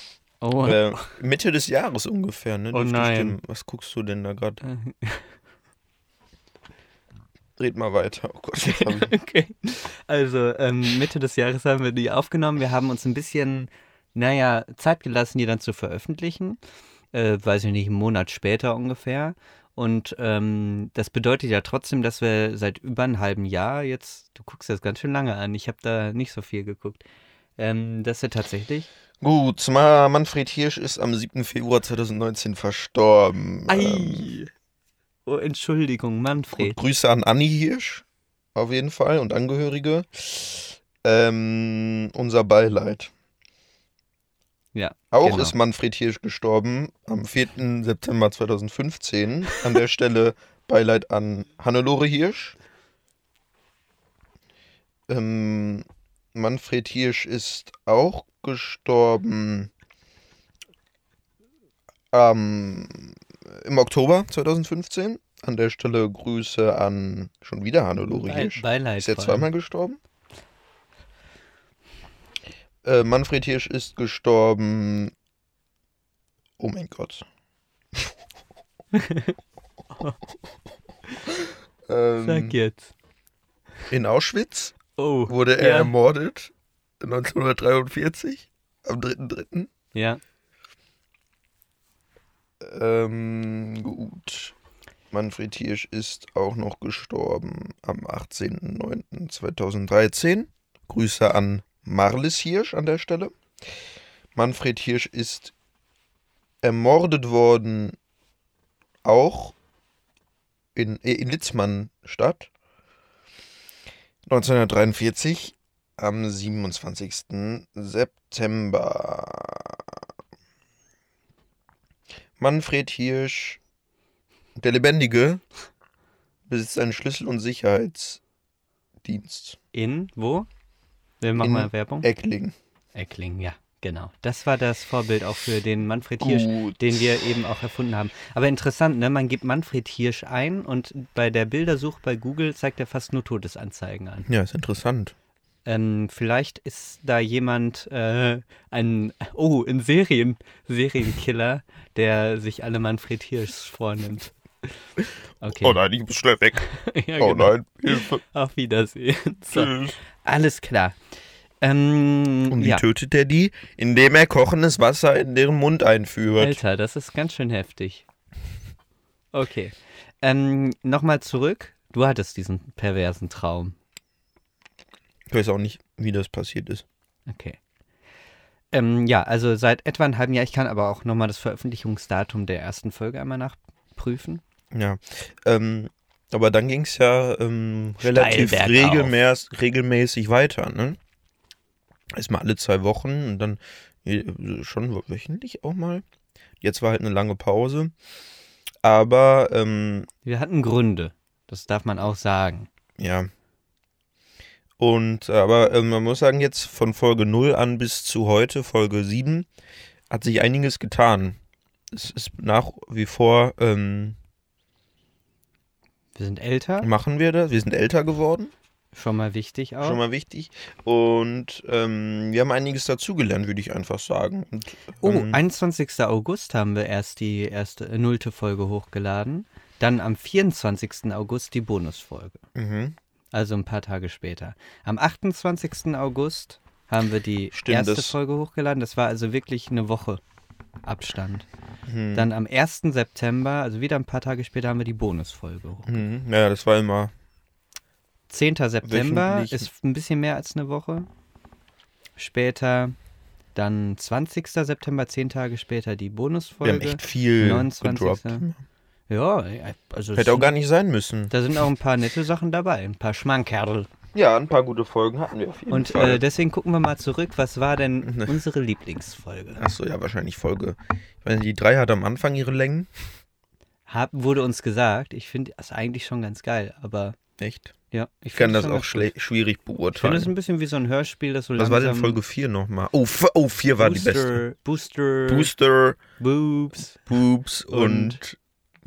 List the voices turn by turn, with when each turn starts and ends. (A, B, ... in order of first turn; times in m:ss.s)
0:00.4-0:01.2 A
0:00.6-0:04.6 B
0:02.7-0:03.4 A
0:04.6-0:05.2 A
0:07.6-0:09.1 B
0:08.6-0:16.6 A
0:17.1-0:27.0 A
0:27.6-0:28.9 A
0:29.2-0:34.3 B
0:33.7-0:34.5 A
0:35.2-0:36.8 A
0:36.5-0:38.0 B
0:38.5-0:43.1 B
0:44.7-0:45.5 A
0:45.1-0:52.6 B
0:55.1-0:59.7 B
1:02.1-1:10.0 B
1:08.1-1:09.5 A
1:12.8-1:15.1 B
1:16.6-1:17.2 B
1:18.9-1:19.3 A
1:21.9-1:22.5 B
1:22.2-1:22.9 A
1:23.9-1:24.8 B
1:25.0-1:25.9 A
1:25.3-1:29.7 B
1:29.9-1:30.2 A
1:32.6-1:34.5 B
1:35.1-1:43.3 B
1:44.3-1:45.5 B
1:46.6-1:48.0 B
1:49.0-1:49.5 B
1:50.7-1:52.5 B
1:54.3-2:00.0 B
2:02.4-2:03.6 B
2:04.6-2:05.4 B
2:06.5-2:08.2 B
2:09.0-2:09.6 B
2:09.7-2:10.5 A
2:11.2-2:12.1 A
2:11.4-2:12.5 B
2:12.9-2:24.3 A
2:16.2-2:17.2 B
2:24.3-2:25.1 B
2:25.6-2:34.7 A
2:35.4-2:35.8 A
2:35.5-2:36.6 B
2:36.6-2:41.0 A
2:37.2-2:38.2 B
2:39.5-2:40.0 B
2:41.6-2:42.8 A
2:42.5-2:46.6 B
2:46.4-2:48.0 A
2:49.3-2:53.7 A
2:55.3-2:56.8 B
2:57.3-2:57.6 A
2:58.7-3:04.4 A
3:04.7-3:11.0 B
3:08.0-3:09.1 A
3:12.1-3:16.0 B
3:16.6-3:17.9 B
3:18.8-3:20.1 B
3:20.2-3:22.7 A
3:23.0-3:23.3 B
3:24.8-3:29.5 B
3:30.1-3:31.4 B
3:31.9-3:34.2 B
3:36.1-3:36.9 A
3:36.8-3:38.5 B
3:38.9-3:40.0 A
3:39.8-3:45.4 B
3:45.0-3:52.4 A
3:52.5-3:53.0 B
3:53.3-4:00.2 A
3:57.5-3:58.1 B
4:00.8-4:01.5 A
4:01.8-4:02.3 B
4:02.1-4:06.0 A
4:05.8-4:07.1 B
4:08.3-4:11.1 A
4:08.8-4:09.7 B
4:12.2-4:13.0 A
4:13.5-4:18.4 A
4:16.6-4:18.6 B
4:19.1-4:20.5 A
4:20.1-4:21.3 B
4:21.3-4:23.9 A
4:24.1-4:26.2 B
4:25.7-4:29.6 A
4:28.0-4:28.4 B
4:29.6-4:32.9 B
4:33.9-4:37.2 A
4:37.4-4:37.7 B
4:37.9-4:39.1 A
4:38.3-4:40.3 B
4:39.9-4:42.2 A
4:41.6-4:44.4 B
4:43.8-4:45.5 A
4:45.3-4:46.0 B
4:46.2-4:47.1 A
4:47.0-4:48.4 B
4:47.7-4:48.2 A